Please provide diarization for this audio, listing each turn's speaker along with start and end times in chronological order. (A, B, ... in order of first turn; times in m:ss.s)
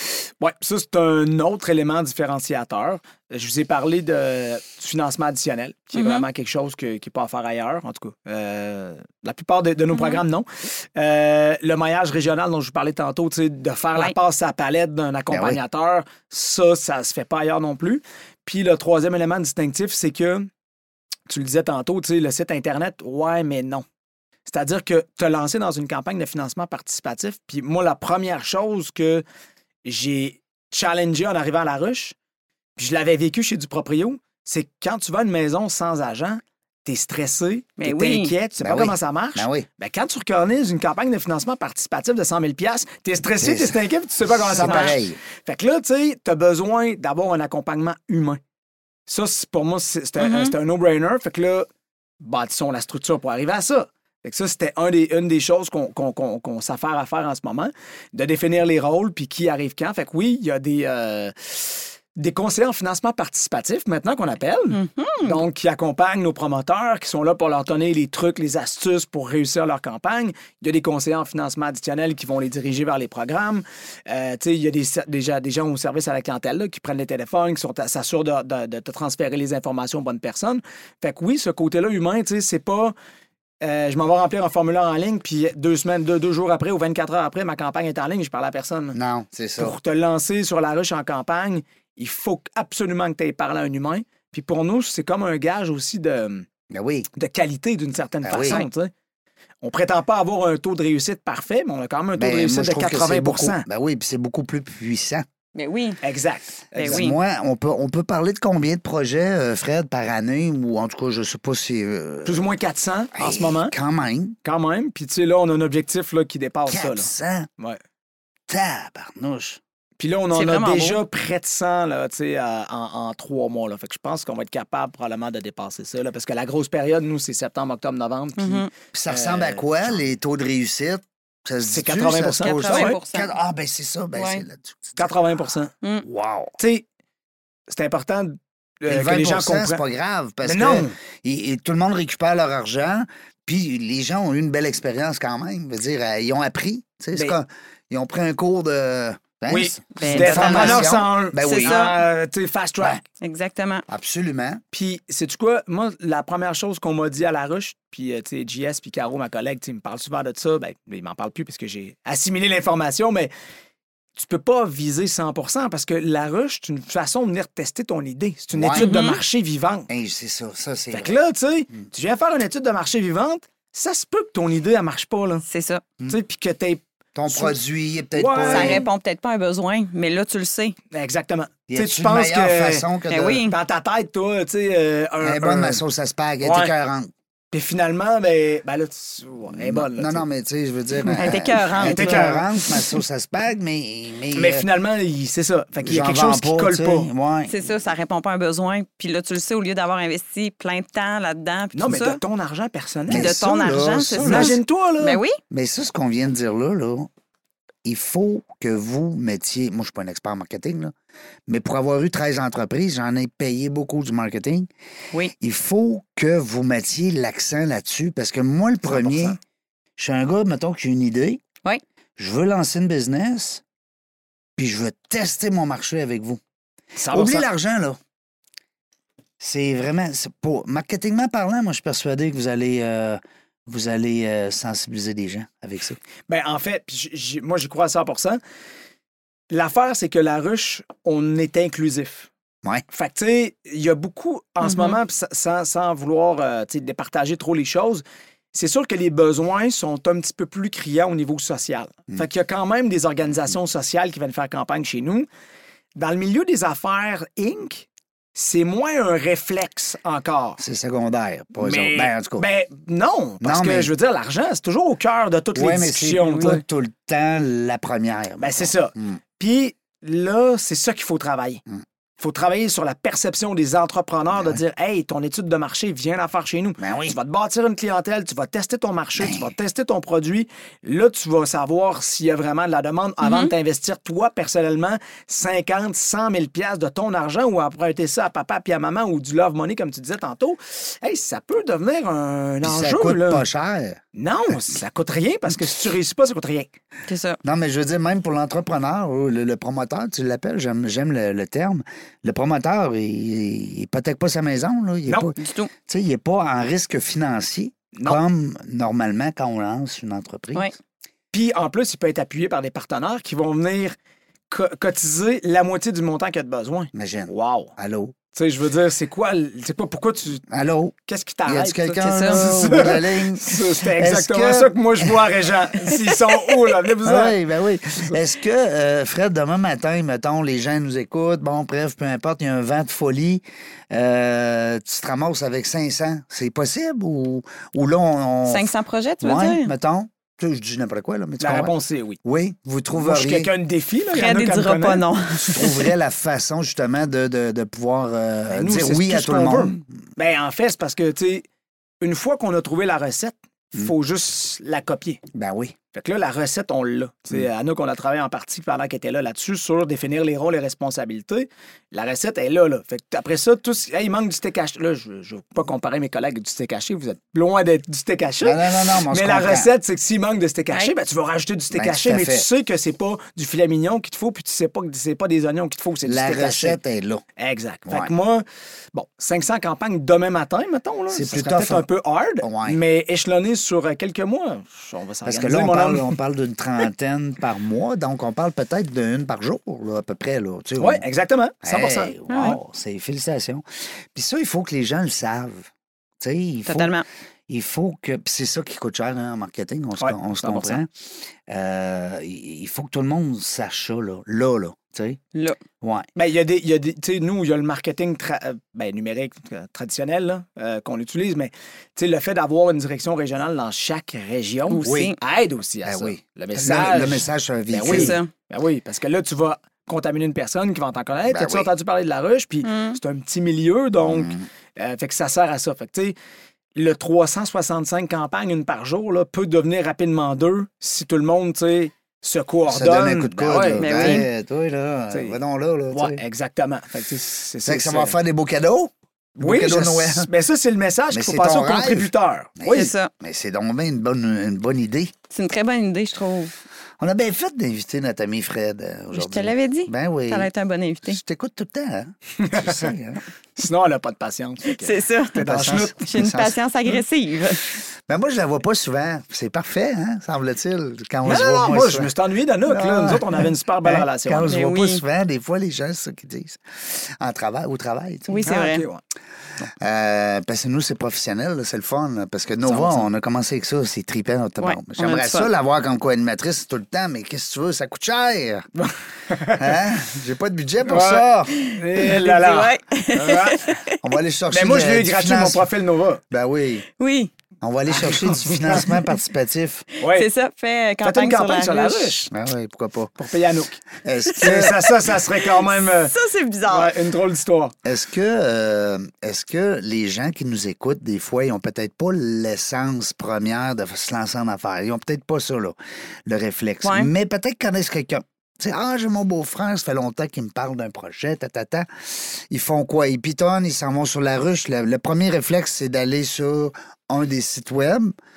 0:00.4-0:20.5 A
0:05.9-0:06.2 B
0:09.9-0:10.2 B
0:15.3-0:15.6 C
0:21.3-0:23.8 A
0:24.5-0:29.2 A
0:29.8-0:32.2 A
0:32.8-0:48.4 A
0:37.8-0:38.3 B
0:38.6-0:39.7 C
0:43.4-0:45.2 C
0:44.6-0:44.9 B
0:49.1-0:51.7 A
0:50.2-0:50.6 B
0:52.2-1:23.0 A
1:04.7-1:05.4 B
1:23.6-1:29.0 A
1:28.9-1:29.8 C
1:29.6-1:36.5 A
1:36.7-1:37.1 C
1:37.2-1:38.9 A
1:38.2-1:38.6 C
1:38.4-1:38.7 B
1:39.6-1:43.7 A
1:42.2-1:45.2 C
1:45.6-1:46.0 B
1:46.0-1:47.1 A
1:46.8-1:47.2 B
1:46.8-1:52.5 C
1:52.2-1:53.7 A
1:53.2-1:54.4 C
1:54.4-1:57.8 A
1:56.7-1:57.5 C
1:58.5-1:59.6 C
2:00.0-2:10.0 A
2:00.3-2:01.0 B
2:08.4-2:08.7 B
2:08.9-2:15.1 C
2:11.7-2:13.0 A
2:12.4-2:13.3 B
2:14.1-2:14.4 B
2:15.0-2:15.7 A
2:16.0-2:16.6 C
2:16.6-2:16.8 A
2:17.7-2:19.8 A
2:18.9-2:31.8 C
2:20.4-2:21.0 A
2:29.5-2:33.0 A
2:30.0-2:30.9 B
2:31.4-2:32.0 B
2:33.2-2:33.8 B
2:33.9-2:34.6 C
2:34.7-2:43.3 A
2:44.2-2:49.9 A
2:48.5-2:48.9 C
2:48.8-2:49.2 B
2:49.9-2:51.2 C
2:50.9-2:55.4 A
2:55.5-2:55.8 B
2:56.1-2:56.8 A
2:57.2-2:58.9 C
2:58.1-2:58.9 A
2:58.5-3:00.8 B
3:00.9-3:02.9 A
3:01.7-3:03.4 C
3:03.1-3:03.6 B
3:03.5-3:05.8 A
3:05.2-3:07.1 C
3:06.4-3:06.7 A
3:07.5-3:10.3 A
3:09.5-3:14.6 C
3:11.2-3:12.4 B
3:11.7-3:12.5 A
3:14.3-3:17.1 A
3:15.8-3:17.6 C
3:17.5-3:22.2 B
3:21.8-3:25.2 A
3:23.1-3:24.6 C
3:23.1-3:25.4 B
3:25.5-3:27.1 C
3:27.8-3:30.9 C
3:31.5-3:34.7 C
3:35.4-3:39.4 C
3:38.9-3:39.4 A
3:40.0-3:41.4 C
3:42.2-3:43.6 C
3:44.6-3:46.4 C
3:47.0-3:47.5 A
3:47.1-3:48.0 C
3:49.4-3:56.0 C
3:56.3-3:58.4 A
3:59.5-4:02.3 A
4:02.9-4:08.0 A
4:04.6-4:05.0 B
4:08.5-4:15.3 A
4:16.0-4:20.6 A
4:20.6-4:22.5 C
4:21.6-4:26.6 A
4:23.4-4:23.9 C
4:25.6-4:29.2 C
4:28.4-4:31.6 A
4:32.2-4:53.4 A
4:34.3-4:34.6 C
4:36.8-4:37.2 C
4:39.2-4:39.5 C
4:43.2-4:43.5 B
4:52.6-4:54.0 C
4:54.2-4:56.7 A
4:57.1-4:57.4 B
4:57.4-5:10.7 C
5:05.4-5:05.7 B
5:11.3-5:14.0 A
5:14.5-5:17.7 A
5:16.9-5:18.2 C
5:18.3-5:20.5 A
5:20.5-5:21.0 C
5:21.1-5:27.4 A
5:21.5-5:25.2 C
5:22.0-5:22.7 B
5:27.0-5:41.7 C
5:38.5-5:39.7 B
5:41.4-5:42.2 A
5:42.2-5:43.5 C
5:43.0-5:45.1 A
5:44.1-5:45.9 B
5:45.5-5:49.8 C
5:48.5-5:51.4 A
5:52.0-5:55.2 A
5:55.3-5:55.8 C
5:55.9-6:16.8 A
6:08.4-6:09.7 C
6:11.7-6:12.5 C
6:16.1-6:17.2 C
6:17.4-6:26.2 A
6:21.1-6:21.9 C
6:22.4-6:22.8 C
6:25.2-6:31.0 C
6:30.8-6:32.3 A
6:31.6-6:35.7 C
6:32.3-6:32.6 B
6:36.2-6:37.0 C
6:36.7-6:37.0 B
6:37.5-6:40.9 C
6:40.0-6:40.8 A
6:41.5-6:45.2 C
6:45.8-6:46.1 C
6:46.2-7:06.2 A
6:54.7-6:55.2 B
6:54.8-6:55.1 C
6:55.8-6:58.2 C
6:57.9-6:58.3 B
7:01.3-7:01.7 C
7:02.6-7:03.0 B
7:04.0-7:04.4 C
7:06.8-7:14.3 A
7:12.7-7:16.2 C
7:13.8-7:14.3 B
7:15.1-7:15.4 A
7:15.9-7:18.2 A
7:17.6-7:20.3 C
7:19.4-7:22.9 A
7:21.1-7:25.1 C
7:22.7-7:23.1 B
7:25.3-7:26.5 B
7:27.0-7:30.5 C
7:29.1-7:31.2 B
7:31.1-7:33.2 C
7:32.4-7:32.9 A
7:33.6-7:36.1 A
7:34.7-7:37.6 B
7:35.4-7:36.6 C
7:38.1-7:42.1 C
7:41.2-7:44.5 A
7:42.7-7:48.5 C
7:44.5-7:45.0 B
7:48.3-7:48.9 B
7:48.4-7:49.0 A
7:49.8-7:58.7 C
7:52.6-7:53.1 A
7:54.6-7:55.5 B
7:58.8-7:59.8 A
7:59.5-8:01.5 C
8:00.9-8:03.8 A
8:01.5-8:04.0 B
8:04.0-8:05.7 C
8:04.5-8:06.2 A
8:06.3-8:06.8 C
8:07.0-8:07.3 B
8:07.6-8:09.8 C
8:07.9-8:08.9 A
8:10.0-8:12.3 B
8:10.0-8:10.3 A
8:11.0-8:12.3 A
8:12.3-8:13.1 C
8:13.2-8:13.8 A
8:14.0-8:14.9 C
8:14.4-8:16.1 A
8:15.3-8:16.9 B
8:16.7-8:17.8 A
8:17.8-8:38.1 C
8:26.8-8:27.1 B